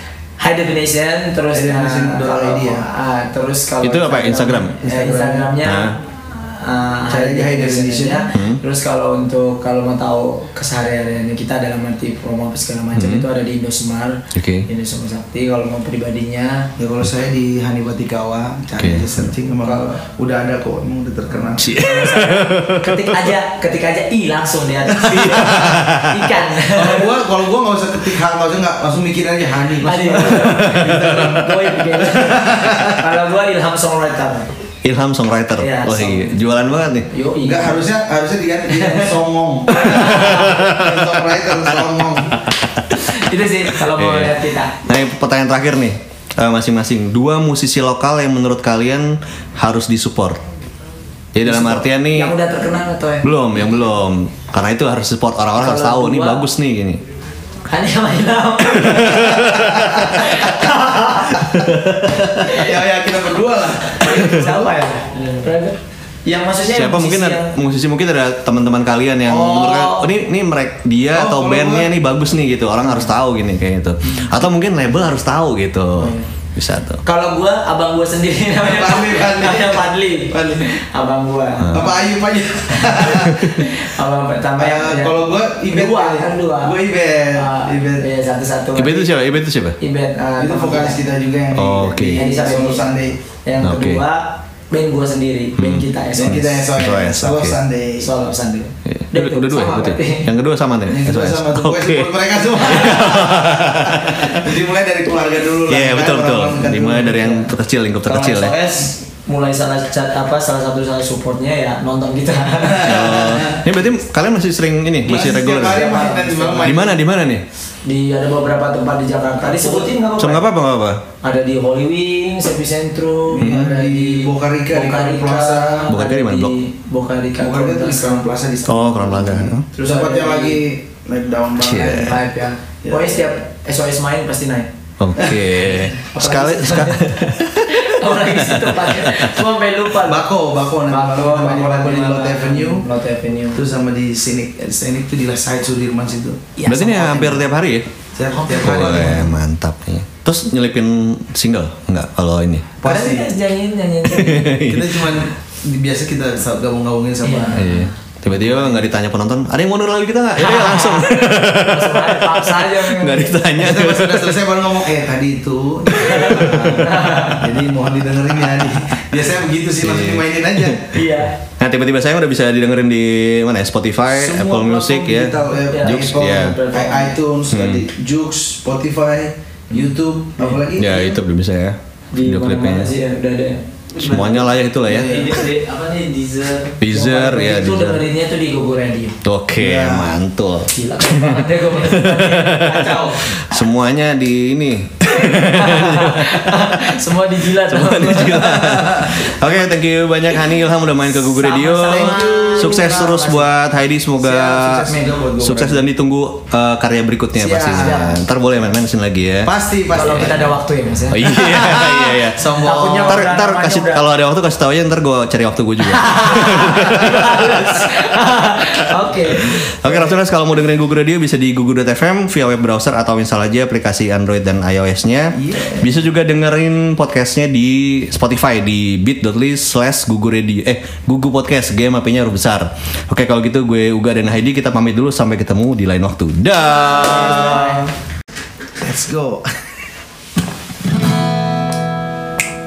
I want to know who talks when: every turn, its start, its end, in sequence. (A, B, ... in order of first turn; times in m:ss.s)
0:00.4-0:16.7 A
0:01.5-0:02.9 B
0:03.8-0:04.8 C
0:04.8-0:05.5 B
0:05.6-0:05.9 C
0:07.1-0:08.2 B
0:08.3-0:08.6 C
0:13.0-0:13.3 C
0:14.3-0:14.7 C
0:16.8-0:21.7 B
0:18.8-0:19.2 C
0:19.6-0:19.9 A
0:21.3-0:27.1 A
0:21.6-0:23.3 C
0:25.2-0:26.4 C
0:25.4-0:25.8 B
0:26.6-0:33.0 B
0:29.8-0:34.5 A
0:30.3-0:31.4 C
0:34.8-0:37.1 C
0:35.6-0:36.4 A
0:37.1-0:37.9 A
0:37.4-0:42.4 B
0:39.8-0:40.7 A
0:39.8-0:41.3 C
0:42.4-0:43.0 C
0:42.9-0:44.8 A
0:43.9-0:50.4 C
0:51.3-0:52.3 C
0:51.4-0:53.3 A
0:53.2-0:57.0 C
0:55.6-0:56.4 A
0:57.7-1:01.6 A
0:58.8-1:00.1 C
0:59.3-1:00.3 B
1:01.2-1:04.9 B
1:01.7-1:02.4 C
1:02.4-1:02.7 A
1:04.0-1:07.5 A
1:06.7-1:17.0 C
1:09.3-1:10.1 A
1:11.1-1:11.9 B
1:16.0-1:16.3 A
1:17.0-1:21.9 A
1:18.6-1:20.6 B
1:21.6-1:22.0 C
1:21.7-1:23.5 B
1:22.8-1:26.8 A
1:23.1-1:23.4 C
1:24.6-1:28.1 B
1:27.3-1:29.2 A
1:28.8-1:29.8 C
1:29.8-1:31.0 A
1:30.4-1:33.2 B
1:31.5-1:32.2 C
1:32.2-1:32.9 A
1:33.5-1:36.6 A
1:33.6-1:34.0 C
1:35.6-1:37.6 C
1:36.2-1:38.1 B
1:38.0-1:40.3 A
1:38.9-1:44.5 C
1:40.9-1:47.5 B
1:45.7-1:48.6 C
1:48.1-1:53.2 A
1:52.6-1:53.6 B
1:52.8-1:55.9 C
1:55.0-1:57.0 B
1:55.1-1:56.9 A
1:56.6-1:57.4 C
1:57.8-2:00.4 A
1:59.6-1:59.8 B
2:00.2-2:01.0 C
2:01.2-2:08.3 A
2:03.3-2:05.9 B
2:03.4-2:03.7 C
2:05.9-2:06.6 C
2:07.4-2:12.2 B
2:08.7-2:09.6 C
2:09.7-2:10.6 A
2:11.6-2:12.1 C
2:11.9-2:14.7 A
2:12.8-2:13.3 B
2:15.0-2:19.4 C
2:15.6-2:20.2 A
2:20.0-2:22.9 B
2:20.9-2:23.6 A
2:23.5-2:26.4 B
2:26.6-2:27.5 A
2:26.7-2:27.9 C
2:28.2-2:29.4 B
2:28.3-2:29.2 A
2:28.5-2:32.8 C
2:32.8-2:33.3 B
2:32.8-2:34.6 A
2:34.1-2:35.2 C
2:34.6-2:37.8 B
2:37.2-2:37.9 A
2:37.6-2:44.4 C
2:40.4-2:43.4 A
2:43.6-2:50.9 B
2:46.0-2:46.8 C
2:46.0-2:47.5 A
2:49.8-2:50.9 C
2:50.9-2:51.3 A
2:51.6-2:56.6 C
2:54.1-3:01.2 B
2:55.7-2:57.2 A
2:57.5-2:57.8 C
3:00.8-3:02.9 C
3:02.1-3:09.2 A
3:03.9-3:05.4 B
3:04.0-3:05.4 C
3:06.8-3:08.0 C
3:09.2-3:16.8 C
3:09.6-3:10.2 B
3:10.7-3:13.6 A
3:15.1-3:19.3 A
3:17.6-3:29.5 C
3:21.2-3:23.5 A
3:21.7-3:23.2 B
3:24.2-3:25.8 B
3:27.4-3:28.2 B
3:27.8-3:28.2 A
3:29.4-3:30.5 B
3:29.9-3:31.6 A
3:31.1-3:37.9 C
3:31.3-3:33.3 B
3:32.6-3:34.0 A
3:35.9-3:40.1 A
3:39.4-3:57.9 C
3:45.4-3:46.0 B
3:57.3-3:57.8 B
3:57.4-3:57.8 A
3:58.8-3:59.8 B